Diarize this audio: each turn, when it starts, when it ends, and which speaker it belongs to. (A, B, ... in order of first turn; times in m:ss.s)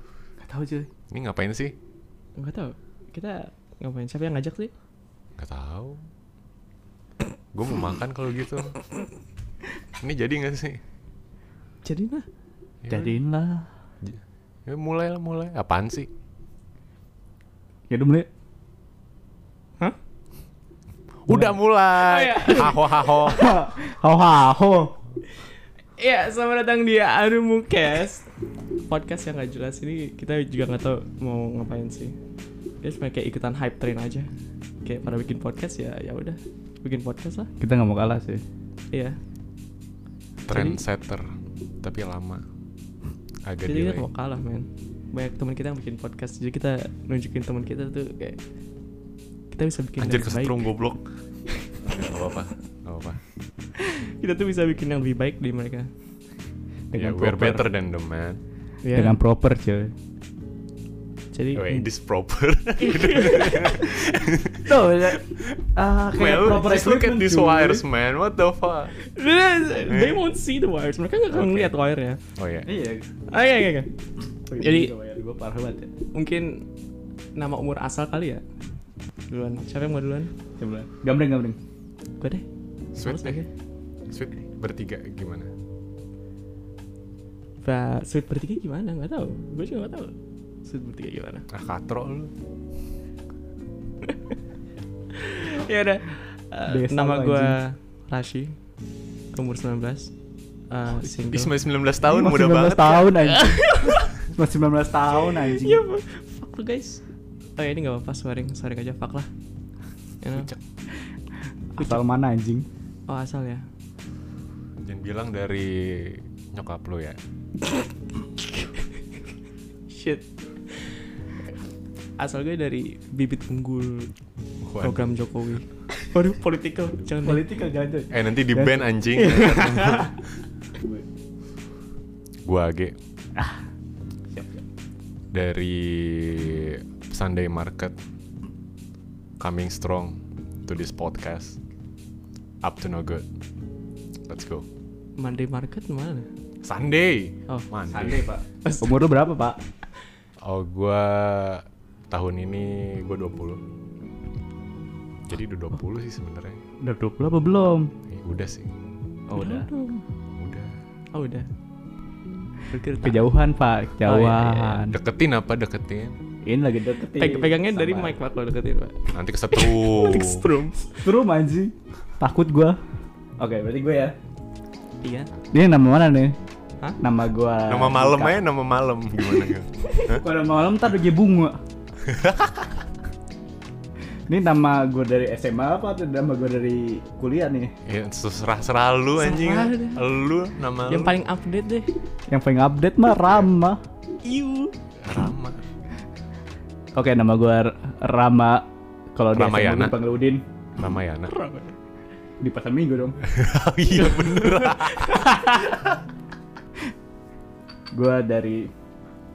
0:00.4-0:00.9 A
0:01.1-0:01.7 B
0:02.4-0:04.7 C
0:05.4-0:06.0 B
0:07.5-0:08.8 B
0:10.0-0:10.8 B
0:11.8-0:12.3 C
0:12.8-0:13.2 B
0:12.9-0:13.7 A
0:14.0-0:16.1 B
0:17.9-0:18.3 A
0:21.2-0:23.5 B
0:22.0-0:23.5 C
0:23.3-0:25.0 A
0:25.3-0:28.3 C
0:28.8-0:32.2 C
0:32.8-0:34.3 C
0:34.8-0:37.5 C
0:37.6-0:38.4 A
0:38.9-0:39.2 C
0:40.4-0:41.2 B
0:40.5-0:40.8 C
0:41.8-0:42.4 B
0:43.4-0:44.1 B
0:43.6-0:48.4 C
0:49.5-0:50.7 C
0:50.0-0:51.1 B
0:51.5-0:51.9 C
0:51.8-0:53.2 B
0:53.8-0:55.9 C
0:56.9-0:57.7 A
0:56.9-0:58.4 B
0:58.8-0:59.2 C
0:58.9-0:59.9 A
1:01.3-1:01.9 C
1:01.5-1:08.9 B
1:02.8-1:03.8 C
1:04.6-1:07.8 A
1:08.9-1:12.2 C
1:09.9-1:10.2 B
1:11.3-1:11.8 B
1:12.4-1:12.7 B
1:12.6-1:13.1 A
1:13.3-1:13.9 C
1:14.5-1:15.9 A
1:14.6-1:14.9 C
1:16.1-1:16.7 C
1:17.3-1:18.4 C
1:19.3-1:20.3 C
1:20.6-1:21.6 A
1:22.2-1:23.5 C
1:22.9-1:23.4 B
1:24.1-1:25.5 B
1:27.6-1:31.4 C
1:31.5-1:32.3 B
1:34.0-1:34.3 C
1:35.1-1:38.6 C
1:36.7-1:37.6 A
1:39.3-1:40.1 C
1:40.7-1:41.5 C
1:40.9-1:43.2 B
1:42.0-1:43.7 A
1:43.3-1:44.1 C
1:44.3-1:45.8 A
1:45.2-1:47.0 C
1:47.6-1:49.3 C
1:50.2-1:50.5 C
1:50.3-1:50.6 B
1:51.7-1:52.6 A
1:53.1-1:53.6 C
1:54.8-1:57.2 B
1:58.4-1:58.9 C
1:59.9-2:01.1 C
2:02.2-2:04.1 C
2:04.6-2:05.3 B
2:04.8-2:07.4 C
2:07.2-2:08.8 A
2:08.1-2:10.2 B
2:09.2-2:10.1 C
2:10.8-2:11.0 A
2:12.4-2:13.0 B
2:13.4-2:13.6 A
2:14.3-2:14.6 A
2:15.3-2:17.9 B
2:19.4-2:21.6 B
2:22.6-2:23.2 B
2:24.3-2:24.6 B
2:25.2-2:26.3 C
2:26.6-2:28.3 B
2:27.9-2:29.6 A
2:28.6-2:29.1 C
2:30.4-2:33.6 B
2:35.3-2:36.6 B
2:36.8-2:37.9 A
2:38.1-2:38.7 B
2:39.3-2:39.7 A
2:39.3-2:40.0 C
2:40.4-2:40.7 B
2:41.1-2:41.5 C
2:42.7-2:43.3 C
2:43.0-2:45.0 A
2:44.0-2:44.8 C
2:44.8-2:46.2 B
2:46.4-2:48.2 A
2:47.1-2:51.0 C
2:49.1-2:50.5 B
2:51.0-2:52.8 A
2:53.4-2:54.1 A
2:55.0-2:55.3 C
2:55.5-2:56.4 A
2:57.0-2:58.4 A
2:57.6-3:00.2 B
3:00.1-3:01.6 A
3:02.1-3:02.8 B
3:04.3-3:07.7 A
3:07.8-3:11.2 B
3:09.2-3:10.0 C
3:10.8-3:11.9 C
3:12.3-3:13.8 A
3:14.2-3:14.7 C
3:15.0-3:15.6 B
3:16.9-3:20.4 A
3:19.3-3:20.0 B
3:20.8-3:21.3 B
3:21.3-3:21.8 C
3:22.4-3:23.2 A
3:23.2-3:25.4 B
3:24.0-3:25.4 C
3:27.9-3:28.7 A